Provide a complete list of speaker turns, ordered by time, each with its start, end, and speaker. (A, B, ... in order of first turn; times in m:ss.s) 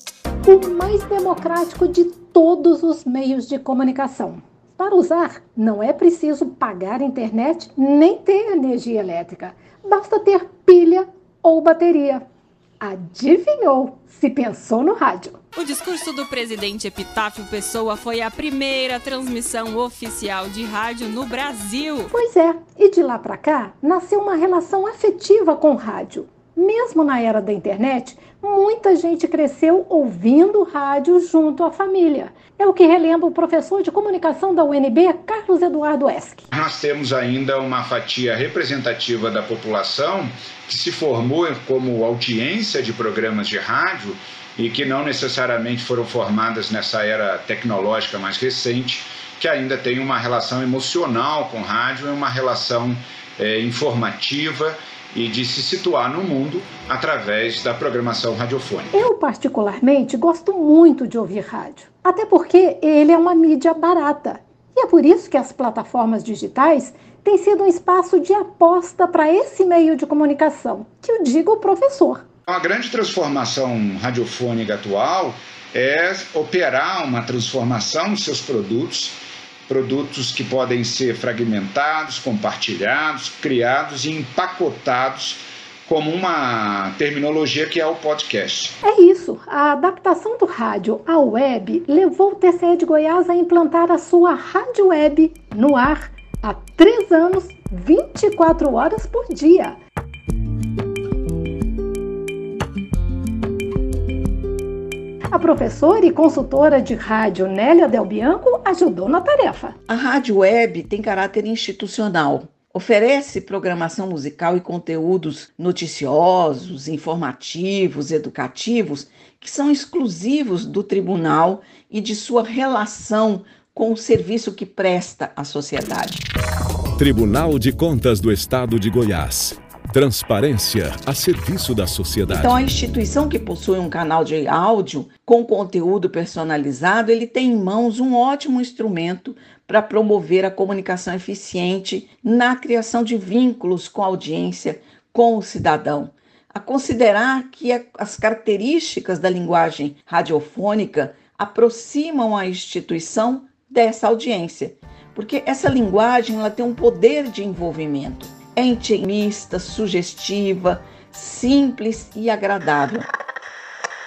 0:00.4-0:12.2 A
0:12.8-0:15.4 A
0:15.5-0:22.1 B
0:22.1-0:36.4 A
0:36.5-0:58.9 C
0:58.9-1:12.2 A
1:12.5-1:28.7 C
1:28.8-1:39.8 A
1:45.3-1:49.8 A
1:49.9-2:06.2 D
2:07.0-2:12.6 E
2:12.3-2:43.1 D